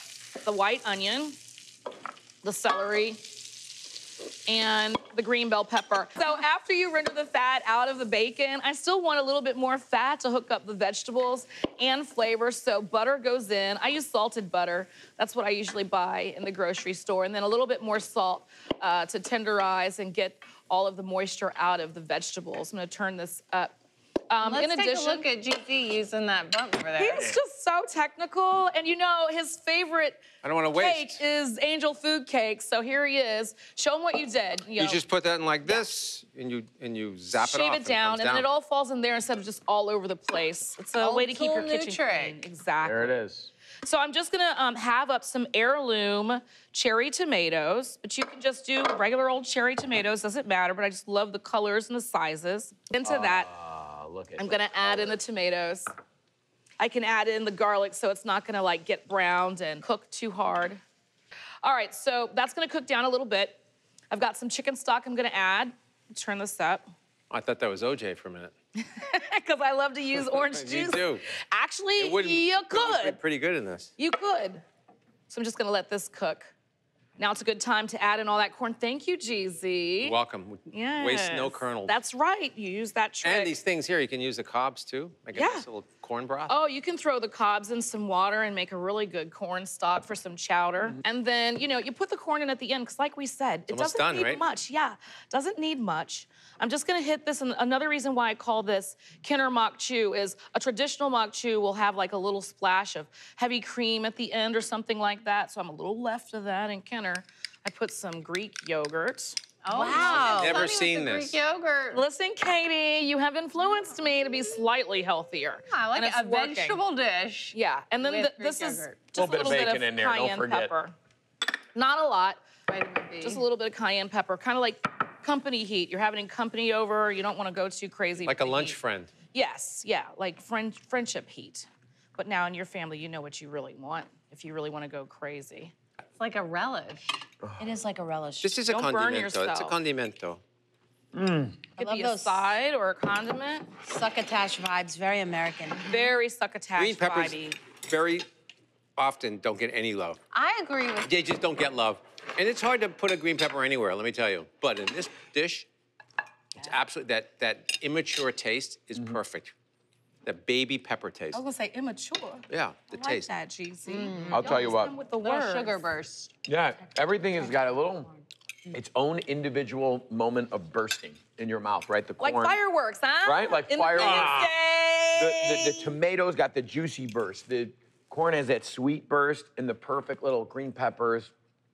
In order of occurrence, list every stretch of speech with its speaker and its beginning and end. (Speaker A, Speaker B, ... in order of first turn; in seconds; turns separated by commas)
Speaker A: 0.4-1.4, Speaker A: 2.4-3.4, Speaker A: 4.5-23.8, Speaker A: 24.3-25.2, Speaker B: 24.4-27.3, Speaker A: 27.0-35.0, Speaker C: 30.4-31.2, Speaker C: 34.8-38.5, Speaker A: 37.4-43.2, Speaker B: 41.0-42.4, Speaker D: 42.8-43.5, Speaker A: 43.8-53.5, Speaker D: 53.0-55.2, Speaker A: 54.4-55.9, Speaker A: 56.8-60.8, Speaker A: 61.6-63.6, Speaker A: 64.1-66.9, Speaker C: 67.3-68.5, Speaker A: 68.8-73.2, Speaker C: 70.2-71.2, Speaker C: 72.0-73.9, Speaker A: 74.0-74.6, Speaker A: 75.3-76.5, Speaker A: 77.2-80.2, Speaker C: 80.0-82.0, Speaker A: 80.7-83.5, Speaker C: 83.2-86.6, Speaker A: 85.3-85.7, Speaker A: 86.5-110.7, Speaker C: 93.7-94.4, Speaker B: 109.7-112.0, Speaker E: 109.7-110.5, Speaker C: 110.0-111.4, Speaker A: 111.9-116.8, Speaker B: 115.7-119.0, Speaker A: 117.5-121.0, Speaker D: 119.2-120.7, Speaker A: 121.7-122.5, Speaker B: 122.7-123.4, Speaker A: 123.2-128.8, Speaker C: 128.2-129.1, Speaker A: 129.3-135.7, Speaker B: 136.2-137.1, Speaker D: 137.4-137.7, Speaker E: 137.6-138.5, Speaker C: 138.4-140.4, Speaker A: 138.7-139.8, Speaker D: 141.2-141.6, Speaker A: 141.8-143.8, Speaker B: 141.8-142.5, Speaker E: 141.8-142.3, Speaker B: 143.8-146.1, Speaker E: 144.0-145.8, Speaker A: 145.8-147.6, Speaker C: 146.8-148.3, Speaker C: 149.0-150.2, Speaker B: 150.3-151.1, Speaker C: 151.0-155.7, Speaker C: 156.6-159.5, Speaker C: 160.2-161.4, Speaker A: 161.3-165.8, Speaker C: 162.5-163.3, Speaker B: 163.9-166.3, Speaker D: 164.3-164.9, Speaker D: 166.5-168.2, Speaker D: 168.7-172.6, Speaker A: 172.2-175.9, Speaker D: 173.2-174.5, Speaker C: 174.0-174.4, Speaker D: 175.2-181.3